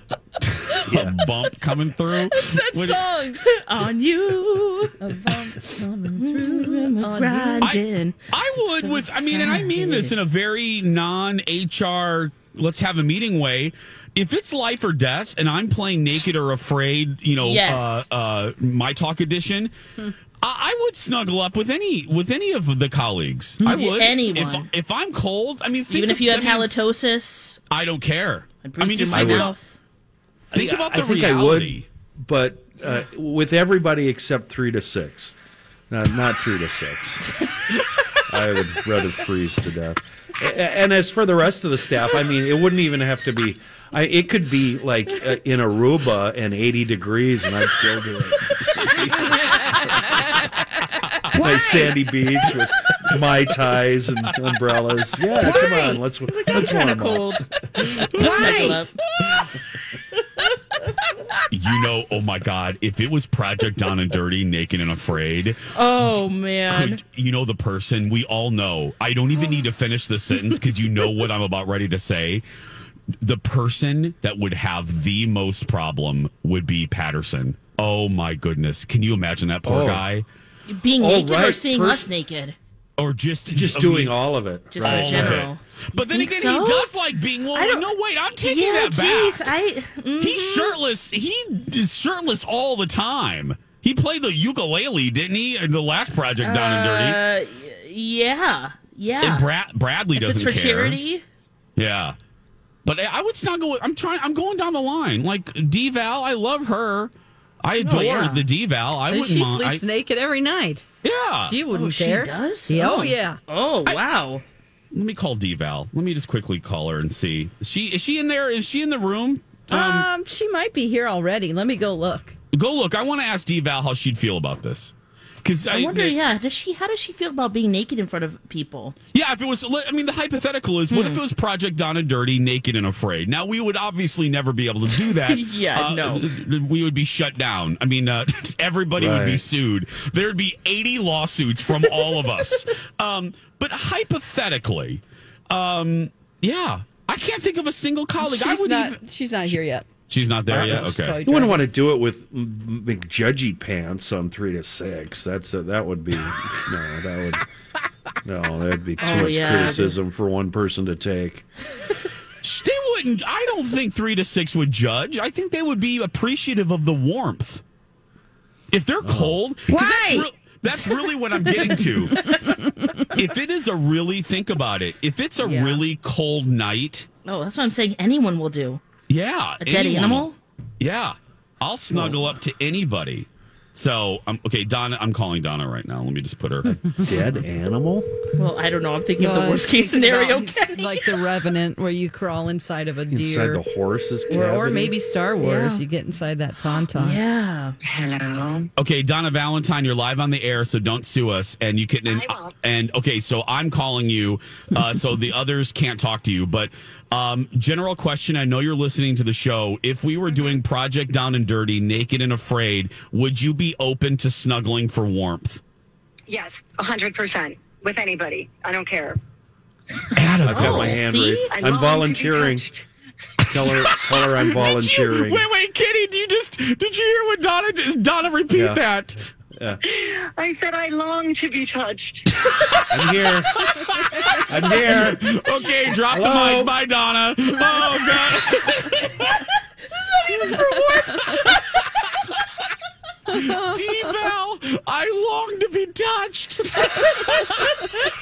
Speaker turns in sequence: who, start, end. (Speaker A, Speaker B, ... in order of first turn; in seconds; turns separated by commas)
Speaker A: 0.4-3.0, Speaker B: 0.8-1.1, Speaker C: 2.2-3.4, Speaker D: 3.5-4.9, Speaker C: 5.0-7.7, Speaker D: 6.2-10.2, Speaker A: 7.6-19.7, Speaker D: 17.4-18.1, Speaker A: 20.4-26.7, Speaker D: 23.6-24.7, Speaker D: 25.9-27.6, Speaker A: 27.7-29.5, Speaker D: 28.6-29.7, Speaker B: 29.1-29.5, Speaker B: 30.5-35.4, Speaker A: 30.5-31.8, Speaker B: 35.9-37.4, Speaker B: 38.3-49.0, Speaker C: 49.0-50.3, Speaker C: 51.3-52.0, Speaker B: 51.3-57.5, Speaker C: 55.4-56.0, Speaker D: 56.3-58.9, Speaker C: 58.0-59.4, Speaker A: 58.1-58.6, Speaker A: 61.5-66.1, Speaker D: 65.7-67.0, Speaker A: 66.7-72.5, Speaker A: 73.2-80.2, Speaker B: 79.7-80.0, Speaker D: 80.7-82.5, Speaker B: 81.0-82.1, Speaker A: 83.0-84.2, Speaker B: 83.5-85.5, Speaker D: 84.7-87.0, Speaker A: 84.8-89.4, Speaker D: 87.5-90.8, Speaker A: 90.2-97.2, Speaker D: 96.4-99.5, Speaker A: 99.2-101.0, Speaker D: 100.1-101.2, Speaker A: 101.8-102.2, Speaker A: 102.8-109.8, Speaker D: 107.8-108.5, Speaker C: 109.1-110.8, Speaker A: 111.0-111.6, Speaker C: 111.4-113.4, Speaker D: 111.7-114.4, Speaker A: 114.9-120.1, Speaker C: 119.7-122.3, Speaker A: 122.5-126.2, Speaker D: 125.7-128.9, Speaker A: 129.1-151.2, Speaker D: 130.9-131.2, Speaker D: 134.9-136.3, Speaker B: 138.9-139.4, Speaker C: 148.2-149.9, Speaker C: 150.5-151.7, Speaker B: 150.5-157.4, Speaker B: 158.2-161.4, Speaker D: 159.0-160.0, Speaker A: 162.4-167.6, Speaker A: 168.7-172.6, Speaker B: 169.0-169.4, Speaker C: 169.7-170.2, Speaker C: 172.1-173.0, Speaker A: 173.1-177.1, Speaker D: 175.4-175.8, Speaker D: 177.2-178.8, Speaker A: 179.1-180.3, Speaker D: 179.6-180.4, Speaker A: 180.8-186.7, Speaker B: 186.6-188.1, Speaker D: 188.3-191.3, Speaker C: 189.2-193.6, Speaker B: 193.1-194.9, Speaker C: 194.3-197.2, Speaker D: 195.4-195.8, Speaker D: 196.9-197.8, Speaker E: 197.9-198.7, Speaker A: 198.8-215.6, Speaker E: 202.1-202.5, Speaker E: 216.3-219.2, Speaker A: 220.2-220.9, Speaker D: 220.2-221.5, Speaker B: 220.4-222.7, Speaker E: 221.5-222.8, Speaker A: 223.4-229.2, Speaker B: 223.5-225.5, Speaker B: 228.5-228.8, Speaker E: 229.9-232.2, Speaker A: 232.5-239.4, Speaker B: 232.9-233.5, Speaker B: 234.5-235.2, Speaker B: 236.1-236.7, Speaker D: 239.9-241.4, Speaker C: 243.3-244.1, Speaker A: 243.3-247.7